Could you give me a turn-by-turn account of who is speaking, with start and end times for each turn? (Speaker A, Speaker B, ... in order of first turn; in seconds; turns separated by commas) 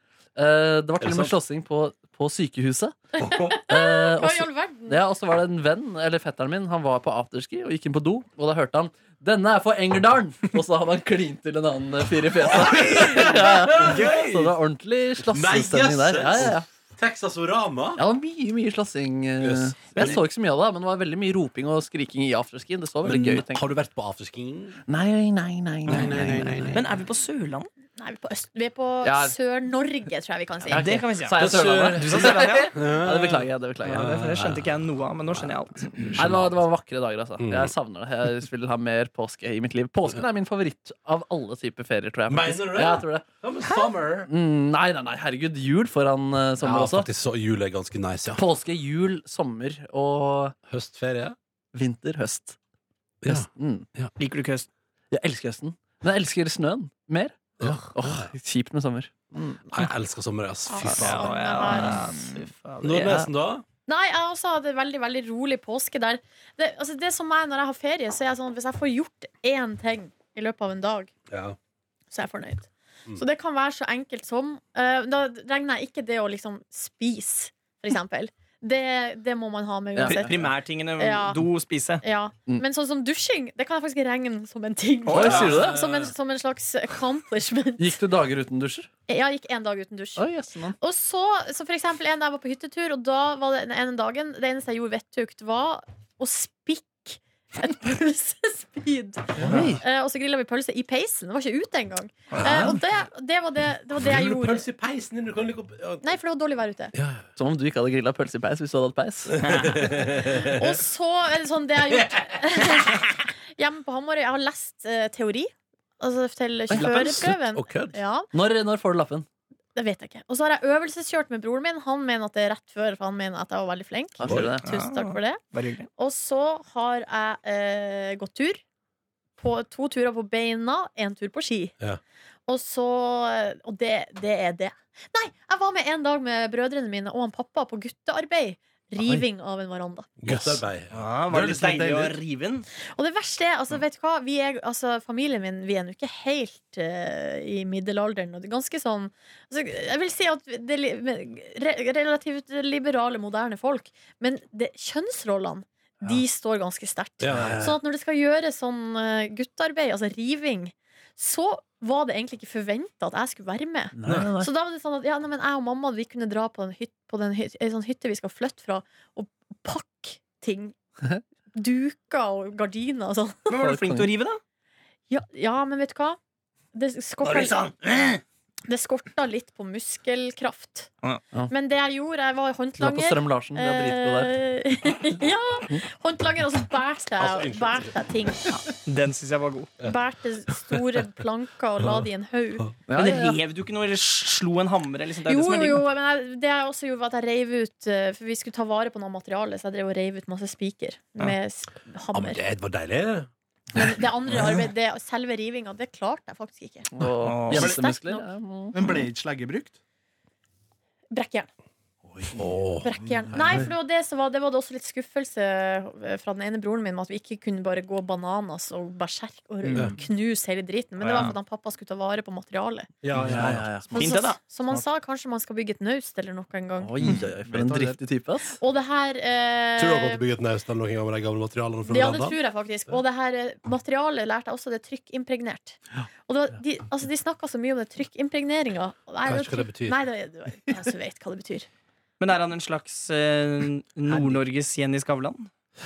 Speaker A: 0.4-3.0, Speaker B: 1.0-1.4, Speaker C: 3.2-5.0, Speaker B: 3.2-3.6, Speaker A: 3.7-16.7, Speaker B: 12.6-14.0, Speaker D: 12.6-14.5, Speaker B: 15.2-18.0, Speaker A: 18.0-23.7, Speaker B: 19.4-20.2, Speaker B: 23.1-24.8, Speaker A: 24.9-26.8, Speaker B: 25.9-26.8, Speaker D: 26.7-27.7, Speaker C: 28.0-30.9, Speaker A: 29.0-29.4, Speaker A: 30.7-34.2, Speaker D: 30.7-32.8, Speaker B: 31.4-34.7, Speaker D: 33.9-36.1, Speaker B: 35.9-36.6, Speaker A: 36.2-43.3, Speaker B: 37.4-37.7, Speaker B: 42.3-44.3, Speaker A: 44.3-47.1, Speaker B: 46.6-48.4, Speaker A: 48.3-50.5, Speaker B: 50.7-51.4, Speaker A: 51.7-52.6, Speaker B: 53.2-54.1, Speaker A: 53.3-53.9, Speaker D: 54.2-54.7, Speaker A: 55.1-59.9, Speaker B: 57.6-58.3, Speaker B: 59.7-61.4, Speaker C: 60.7-62.1, Speaker D: 60.9-63.3, Speaker B: 62.8-63.6, Speaker C: 63.9-71.1, Speaker B: 71.3-71.6, Speaker C: 72.1-81.5, Speaker A: 80.0-80.5, Speaker D: 80.1-82.0, Speaker C: 82.0-88.0, Speaker D: 85.1-85.6, Speaker A: 85.1-85.8, Speaker B: 85.1-86.1, Speaker A: 87.8-88.9, Speaker C: 89.1-90.2, Speaker A: 90.2-90.8, Speaker C: 90.8-104.7, Speaker B: 99.4-99.7, Speaker A: 99.4-99.8, Speaker D: 102.3-102.7, Speaker B: 102.3-102.8, Speaker B: 104.0-106.0, Speaker C: 106.0-106.9, Speaker B: 106.9-107.2, Speaker A: 107.4-109.5, Speaker B: 109.3-110.8, Speaker D: 109.4-109.9, Speaker C: 110.2-118.3, Speaker B: 111.9-112.4, Speaker A: 116.7-117.3, Speaker B: 116.7-118.0, Speaker A: 118.3-119.3, Speaker C: 119.8-125.4, Speaker A: 124.2-124.7, Speaker B: 124.3-124.6, Speaker D: 124.6-125.9, Speaker C: 126.0-128.6, Speaker C: 129.4-131.8, Speaker C: 132.5-140.1, Speaker B: 140.2-141.1, Speaker D: 140.9-142.7, Speaker E: 141.5-142.1, Speaker C: 142.9-170.8, Speaker B: 157.2-157.8, Speaker A: 157.3-157.7, Speaker A: 164.0-164.5, Speaker B: 164.1-164.3, Speaker C: 171.5-173.5, Speaker D: 173.5-174.4, Speaker A: 173.6-174.1, Speaker C: 175.1-176.2, Speaker C: 176.7-177.6, Speaker D: 177.2-178.2, Speaker C: 178.7-180.9, Speaker C: 181.5-188.6, Speaker A: 182.8-184.4, Speaker B: 187.2-187.9, Speaker D: 188.7-189.8, Speaker C: 189.8-192.7, Speaker B: 191.8-192.1, Speaker A: 192.9-193.4, Speaker D: 192.9-195.9, Speaker C: 195.3-202.4, Speaker B: 202.1-203.3, Speaker C: 203.7-206.9, Speaker A: 206.9-208.8, Speaker D: 207.2-207.8, Speaker C: 207.5-208.3, Speaker E: 208.7-209.8, Speaker C: 211.1-211.5, Speaker E: 212.1-212.4, Speaker B: 212.3-213.6, Speaker C: 212.8-222.9, Speaker E: 213.3-213.6, Speaker D: 221.0-221.4, Speaker B: 223.0-223.8, Speaker A: 223.1-224.2, Speaker D: 223.9-224.4, Speaker C: 223.9-227.2, Speaker A: 226.8-228.6, Speaker E: 227.5-228.0, Speaker C: 228.6-230.2, Speaker B: 229.8-232.4, Speaker C: 231.9-241.7, Speaker B: 239.2-240.0, Speaker D: 242.2-245.5